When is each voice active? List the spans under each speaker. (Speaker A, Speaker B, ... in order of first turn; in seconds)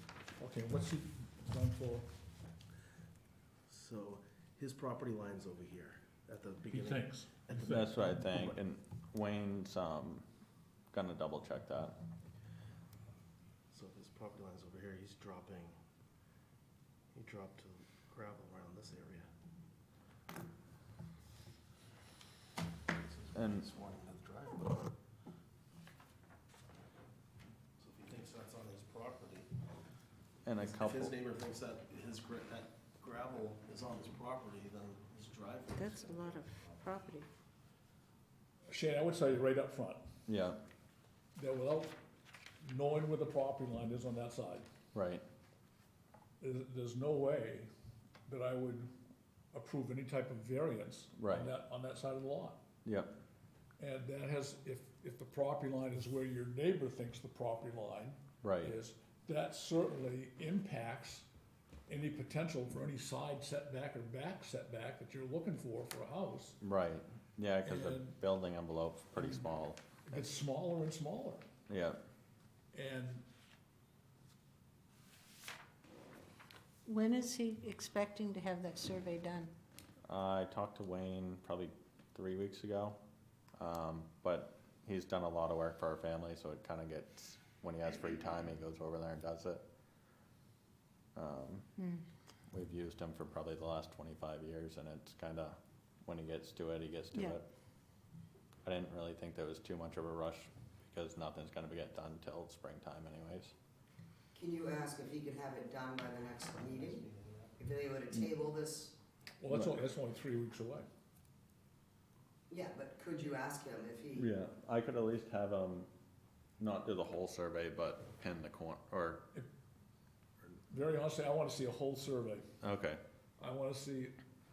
Speaker A: 0.4-2.0, 6.7-7.7, 38.7-40.0, 41.3-42.0, 42.6-44.7, 46.4-47.7, 48.3-48.9, 49.5-52.6, 53.8-61.2, 61.9-66.6, 67.6-68.2, 70.1-71.5, 72.7-73.2, 109.4-110.8, 120.7-122.5, 123.4-124.2
Speaker B: 3.7-7.9, 13.7-15.7, 17.1-19.3, 22.9-24.9, 27.8-29.5, 30.6-36.8, 106.6-107.5
Speaker C: 7.7-10.2, 10.9-11.9, 23.3-23.7, 30.4-31.1, 40.3-40.6, 44.9-45.2, 51.2-51.5, 52.8-53.1, 58.4-58.8, 66.6-70.2, 71.7-72.0, 80.1-83.0, 83.6-89.6, 91.2-91.7, 92.5-97.5, 98.6-103.5, 109.5-109.8, 114.1-115.9, 116.6-119.2, 122.6-123.0
Speaker D: 35.7-37.3, 76.8-79.5, 91.8-92.0
Speaker E: 104.3-107.0, 107.6-108.9, 112.5-114.3